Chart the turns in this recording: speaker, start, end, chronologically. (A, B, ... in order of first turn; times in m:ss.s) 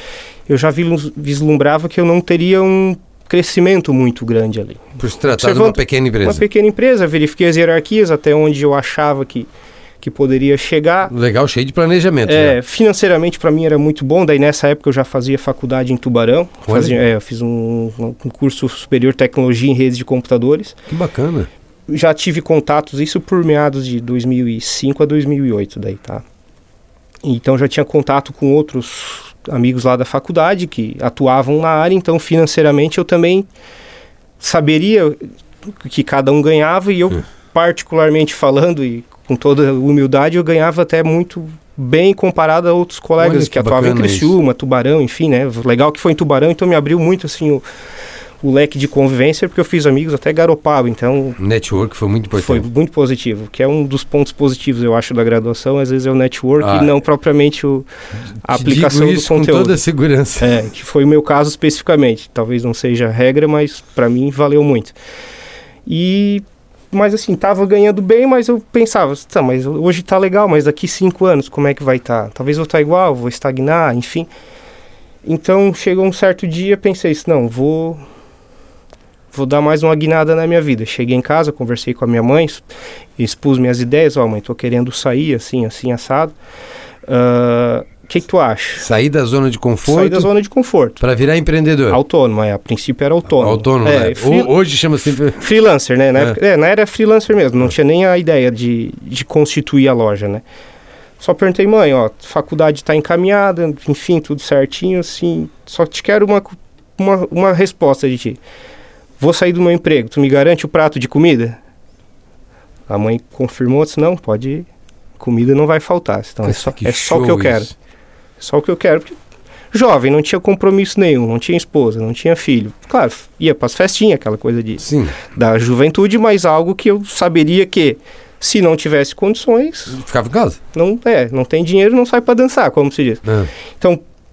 0:00.5-0:09.5 A
0:05.0-0:06.4 B
0:10.0-0:11.1 A
0:11.1-0:12.6 B
0:12.3-0:20.8 A
0:16.7-0:17.0 B
0:20.9-0:21.5 B
0:21.9-0:26.2 A
0:27.2-0:33.5 A
0:34.4-0:47.6 A
0:43.2-0:44.4 B
0:48.4-0:51.4 A
0:51.4-0:52.7 B
0:52.4-0:57.9 A
0:56.6-0:56.9 B
0:58.4-0:59.8 A
0:58.4-1:00.5 B
1:00.4-1:05.0 A
1:05.9-1:14.3 A
1:15.2-1:18.0 A
1:19.3-1:22.6 A
1:23.2-1:26.3 A
1:27.1-1:28.9 A
1:28.8-1:30.3 B
1:29.9-1:31.0 A
1:31.0-1:32.0 B
1:31.9-1:34.5 A
1:33.4-1:35.4 B
1:35.4-1:40.4 A
1:41.2-1:48.4 A
1:49.2-1:51.6 A
1:52.9-1:54.7 A
1:55.2-1:57.7 A
1:56.4-1:57.7 B
1:58.4-1:59.2 A
1:59.7-2:10.0 A
2:04.8-2:05.2 B
2:09.9-2:10.6 B
2:10.7-2:13.2 A
2:13.2-2:13.5 B